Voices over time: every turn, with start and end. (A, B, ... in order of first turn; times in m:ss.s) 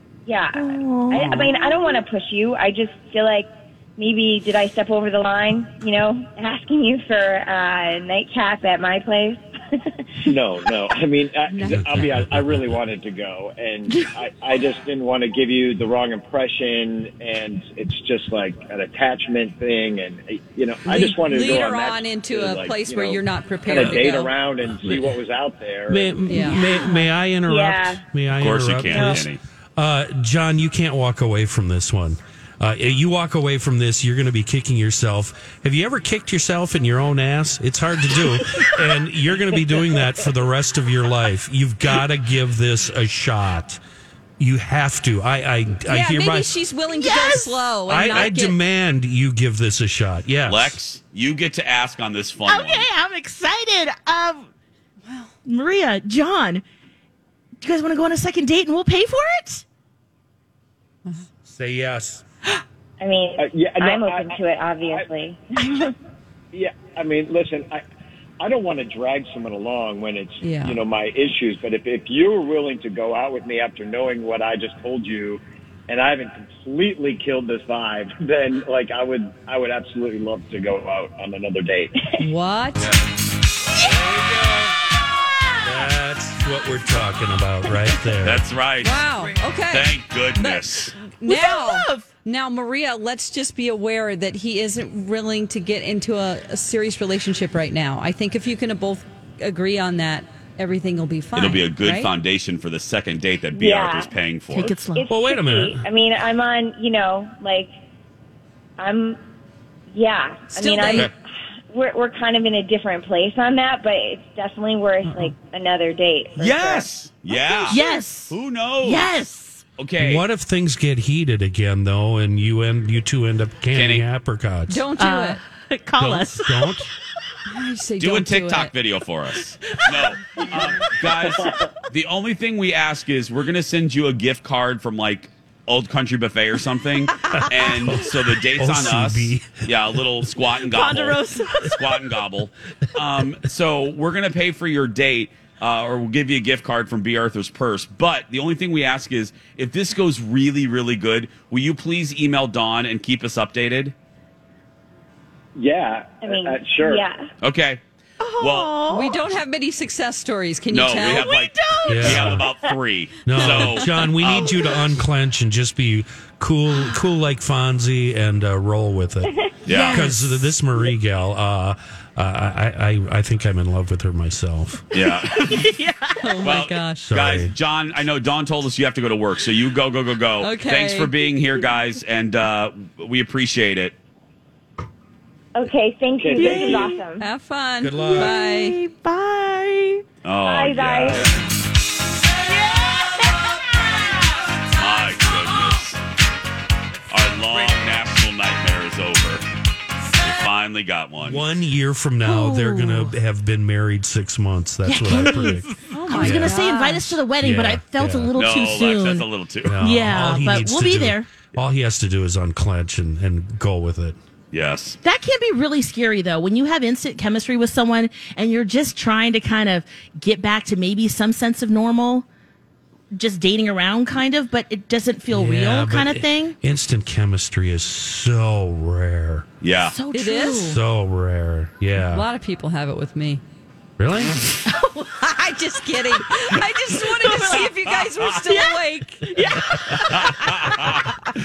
0:00.2-0:10.1 A
0:00.5-0:01.6 B
0:10.3-0:26.3 C
0:11.5-0:11.9 D
0:11.9-0:12.5 E
0:20.9-0:24.3 D
0:24.7-0:25.2 E
0:25.9-0:43.8 E
0:26.3-0:26.7 D
0:26.3-0:28.0 A
0:28.3-0:29.4 F
0:28.9-0:29.2 A
0:44.4-0:46.5 E
0:45.9-0:48.6 D
0:46.9-0:47.8 B
0:47.9-0:50.8 E
0:50.4-0:52.9 F
0:52.4-0:54.5 B
0:55.4-0:56.6 B
0:57.6-0:59.6 B
1:01.5-1:02.2 E
1:03.0-1:05.9 A
1:03.4-1:05.0 C
1:06.5-1:07.8 C
1:08.4-1:21.9 C
1:10.4-1:10.8 D
1:22.2-1:22.9 D
1:23.7-1:24.0 B
1:23.8-1:24.7 E
1:25.3-1:25.8 B
1:25.6-1:28.4 E
1:28.2-1:29.1 F
1:28.8-1:42.1 D
1:29.7-1:30.9 F
1:31.3-1:32.1 B
1:41.4-1:44.8 F
1:43.5-1:44.1 A
1:44.5-1:45.1 B
1:44.9-1:47.7 A
1:45.1-1:45.8 E
1:48.8-1:49.2 A
1:49.9-1:57.7 A
1:50.5-1:51.1 D
1:55.0-1:55.3 E
1:56.4-1:59.2 F
1:57.6-1:59.6 B
1:59.8-2:00.3 F
2:00.0-2:04.8 E
2:03.7-2:04.1 F
2:04.7-2:05.4 D
2:04.9-2:06.9 B
2:06.0-2:06.9 E
2:07.5-2:08.7 D
2:08.0-2:33.9 F
2:09.4-2:10.0 B
2:11.3-2:11.7 C
2:17.3-2:20.1 E
2:17.6-2:17.9 B
2:20.5-2:21.7 B
2:35.5-2:37.0 C
2:36.2-2:37.2 A
2:37.4-2:37.8 F
2:38.2-2:39.2 B
2:38.4-2:38.8 F
2:38.9-2:41.3 D
2:40.7-2:44.6 F
2:41.1-2:42.4 B
2:41.9-2:42.5 E
2:43.2-2:49.3 E
2:49.6-2:50.1 F
2:49.7-2:50.4 B
2:49.9-2:54.9 E
2:54.9-2:55.7 F
2:55.1-2:56.2 B
2:56.2-2:57.1 D
2:56.4-3:04.0 F
2:57.0-2:57.5 E
3:00.4-3:01.1 D
3:05.5-3:07.2 A
3:06.2-3:06.9 C
3:06.3-3:07.0 B
3:07.2-3:08.8 D
3:07.8-3:08.3 E
3:08.0-3:10.0 B
3:10.2-3:11.4 F
3:10.4-3:11.3 A
3:14.8-3:16.0 F
3:17.1-3:19.4 F
3:20.2-3:21.5 F
3:21.2-3:26.6 E
3:22.2-3:23.1 B
3:24.8-3:31.3 B
3:25.9-3:27.2 D
3:27.3-3:28.4 E
3:28.3-3:29.8 F
3:29.6-3:34.2 E
3:34.5-3:35.0 F
3:35.0-3:42.2 B
3:43.1-3:46.6 B
3:45.3-3:49.4 E
3:49.6-3:50.0 F
3:49.8-3:50.8 B
3:50.1-3:50.7 D
3:50.6-3:52.2 E
3:52.0-3:53.4 D
3:54.0-3:54.3 E
3:54.7-3:55.5 B
3:55.4-3:59.3 D
3:57.3-3:57.6 B
3:58.4-4:01.1 B
4:00.1-4:01.0 F